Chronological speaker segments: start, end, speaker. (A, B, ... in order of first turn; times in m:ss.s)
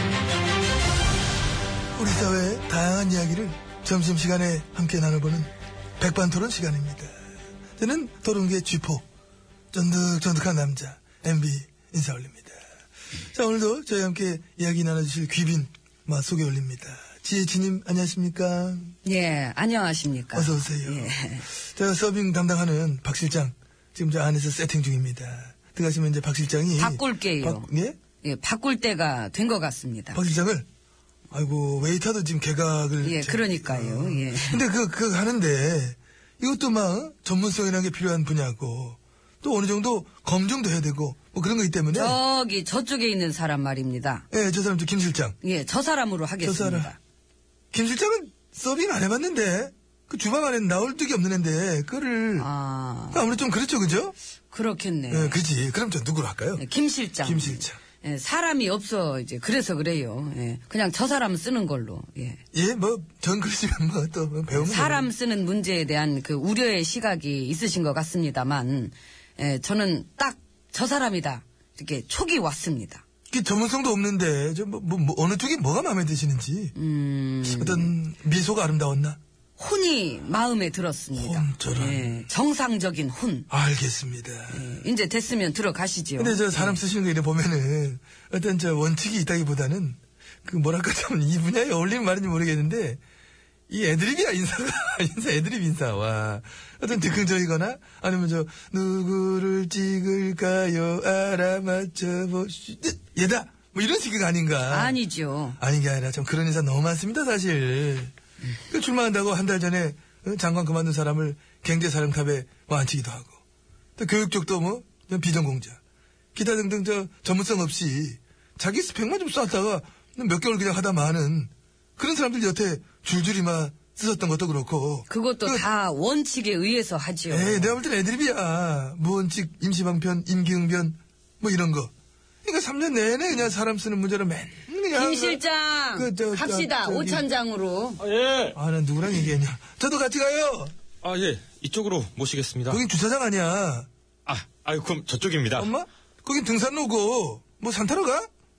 0:02.0-0:07.1 A
0:07.8-0:09.0 A
0:09.7-0:12.6 A
0:13.3-0:18.9 A
0:19.0-0:21.5 B
0:20.3-0:28.0 A
0:26.8-0:27.7 B
0:28.2-0:30.2 B
0:30.1-0:30.7 A
0:31.3-0:42.2 A
0:33.0-0:34.6 B
0:41.9-0:44.2 B
0:44.3-0:45.4 A
0:45.4-0:47.0 B
0:46.4-0:46.9 A
0:47.7-0:52.5 A
0:52.4-0:53.3 B
0:53.1-0:54.1 A
0:54.5-0:55.4 B
0:55.1-0:56.6 A
0:56.6-1:02.4 B
0:57.2-0:57.8 A
1:02.5-1:05.1 A
1:04.5-1:13.0 B
1:13.3-1:16.7 A
1:16.7-1:17.9 B
1:17.4-1:19.2 A
1:19.6-1:23.5 B
1:21.2-1:22.2 A
1:23.5-1:24.7 A
1:24.5-1:26.8 B
1:26.2-1:33.0 A
1:33.7-1:45.0 A
1:44.7-1:45.6 B
1:45.6-1:48.1 A
1:48.7-1:53.4 A
1:54.0-1:55.8 A
1:56.3-2:05.6 A
2:05.1-2:07.7 B
2:07.3-2:11.9 A
2:12.4-2:15.4 A
2:14.9-2:18.0 B
2:15.9-2:17.3 A
2:18.0-2:18.5 C
2:18.5-2:20.7 A
2:21.0-2:22.8 C
2:22.7-2:23.9 A
2:24.2-2:25.7 C
2:25.5-2:28.3 A